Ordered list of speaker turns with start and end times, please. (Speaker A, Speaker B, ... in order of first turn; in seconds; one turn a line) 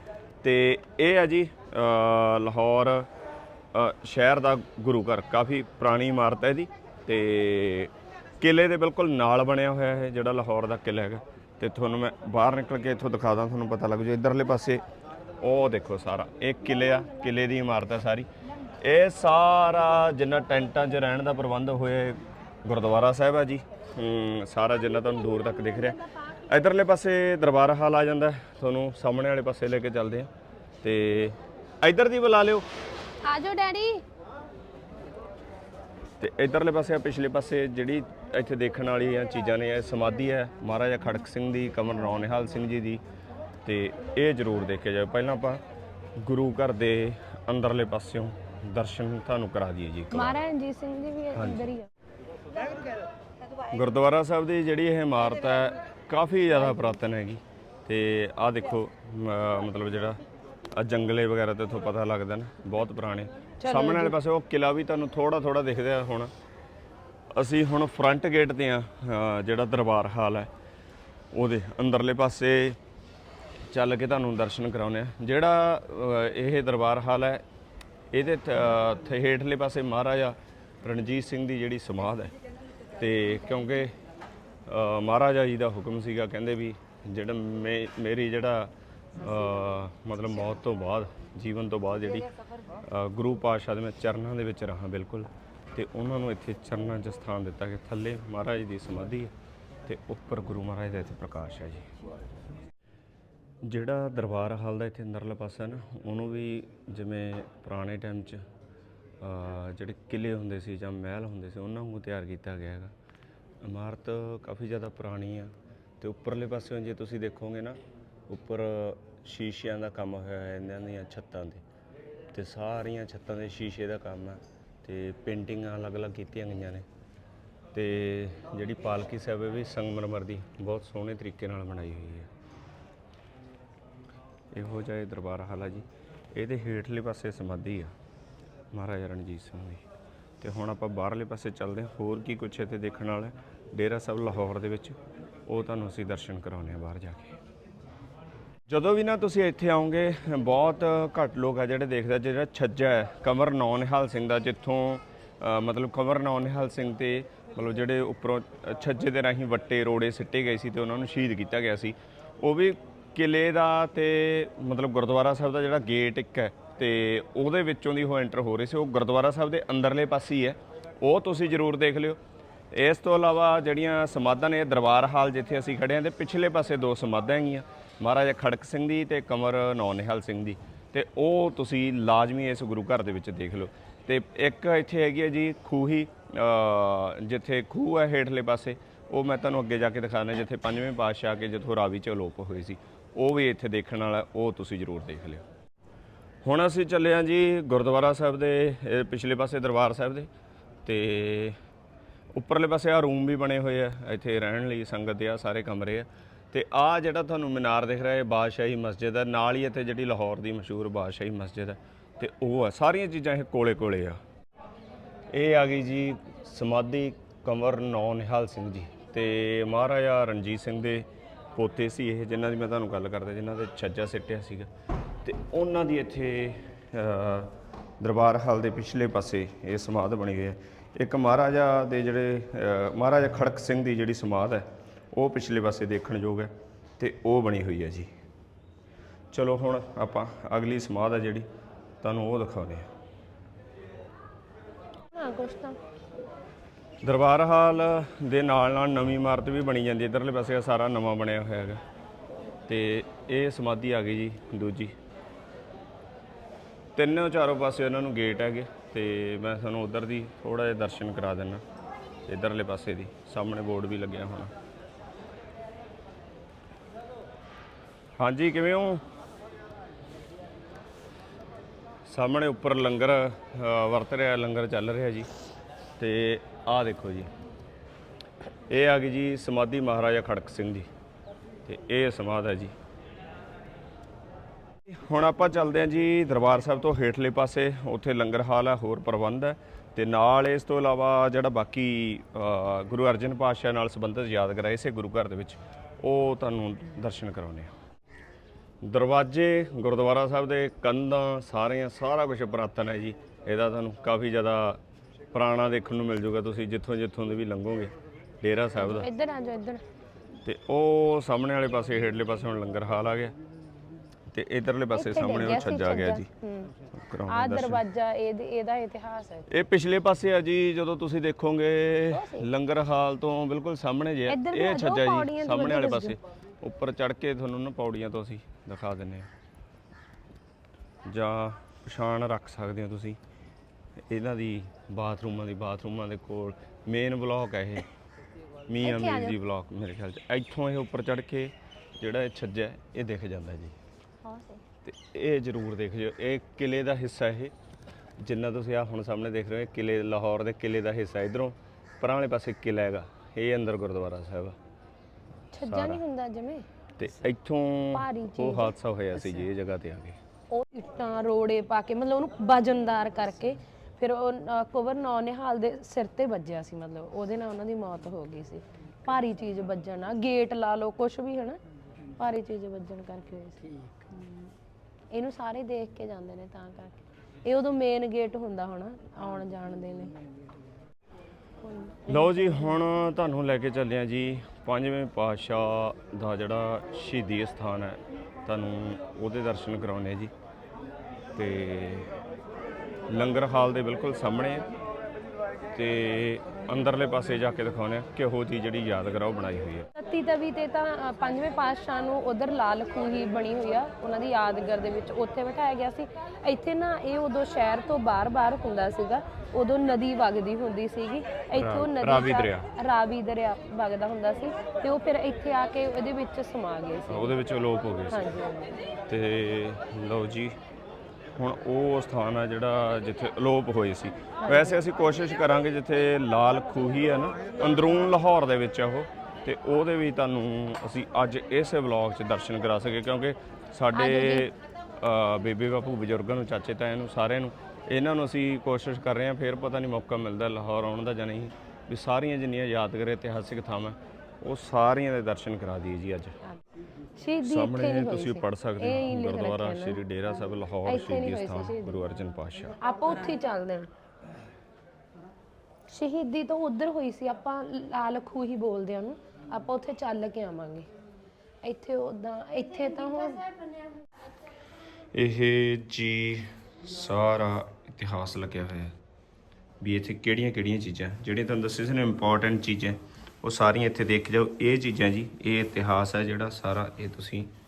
Speaker A: 0.4-3.1
Speaker A: 3.7-14.8
Speaker A: 15.4-18.3
Speaker A: 18.8-30.3
Speaker A: 30.8-32.7
Speaker B: 33.2-34.0
Speaker A: 36.2-43.0
Speaker A: 43.6-45.6
Speaker A: 46.2-50.4
Speaker B: 50.1-51.9
Speaker A: 51.4-51.7
Speaker A: 53.7-60.2
Speaker A: 60.7-66.3
Speaker B: 63.6-64.2
Speaker A: 67.3-70.5
Speaker A: 71.3-72.8
Speaker A: 73.7-77.4
Speaker A: 78.1-82.3
Speaker A: 83.0-83.9
Speaker A: 84.7-92.3
Speaker A: 92.8-99.3
Speaker A: 99.9-101.9
Speaker A: 103.6-108.4
Speaker A: 109.2-112.9
Speaker A: 113.6-121.6
Speaker A: 122.3-126.8
Speaker A: 127.7-132.3
Speaker A: 134.5-137.9
Speaker A: 138.7-139.8
Speaker A: 140.4-147.4
Speaker A: 148.7-172.2
Speaker A: 172.7-195.4
Speaker A: 196.4-200.3
Speaker A: 200.8-201.6
Speaker A: 202.3-214.2
Speaker A: 215.3-224.7
Speaker A: 225.2-238.1
Speaker A: 239.3-241.5
Speaker A: 242.0-242.9
Speaker B: 245.1-245.8
Speaker A: 247.0-251.8
Speaker A: 252.7-254.9
Speaker A: 257.0-261.6
Speaker A: 262.3-264.5
Speaker A: 268.2-269.0
Speaker A: 272.1-275.3
Speaker A: 276.0-277.3
Speaker A: 278.7-280.9
Speaker A: 281.7-282.8
Speaker A: 284.9-297.7
Speaker A: 298.8-304.8
Speaker A: 305.3-309.1
Speaker B: 308.8-309.8
Speaker A: 310.4-313.3
Speaker A: 314.3-316.3
Speaker B: 315.0-316.7
Speaker A: 316.9-317.8
Speaker B: 317.3-319.5
Speaker A: 319.5-329.3
Speaker B: 322.1-322.4
Speaker B: 324.3-326.1
Speaker A: 331.1-333.2
Speaker A: 334.1-337.9
Speaker A: 338.7-343.8
Speaker B: 338.8-339.4
Speaker B: 344.3-344.6
Speaker A: 344.8-347.5
Speaker A: 348.2-354.6
Speaker B: 355.5-356.6
Speaker A: 355.7-356.0
Speaker A: 357.0-360.2
Speaker B: 357.9-358.7
Speaker B: 360.5-371.6
Speaker B: 372.2-374.5
Speaker B: 375.1-380.1
Speaker B: 381.6-382.8
Speaker A: 382.1-390.3
Speaker A: 391.4-392.1
Speaker A: 393.1-394.7
Speaker A: 395.7-399.9
Speaker B: 400.0-417.3
Speaker A: 411.6-412.7
Speaker A: 417.1-418.4
Speaker B: 418.1-418.7
Speaker A: 419.1-420.6
Speaker A: 421.4-446.4
Speaker B: 424.4-424.8
Speaker B: 433.9-434.5
Speaker B: 447.2-450.0
Speaker A: 447.4-452.8
Speaker B: 450.9-452.0
Speaker B: 452.8-453.9
Speaker B: 455.9-460.9
Speaker B: 461.6-463.6
Speaker A: 465.1-469.0
Speaker A: 469.8-477.5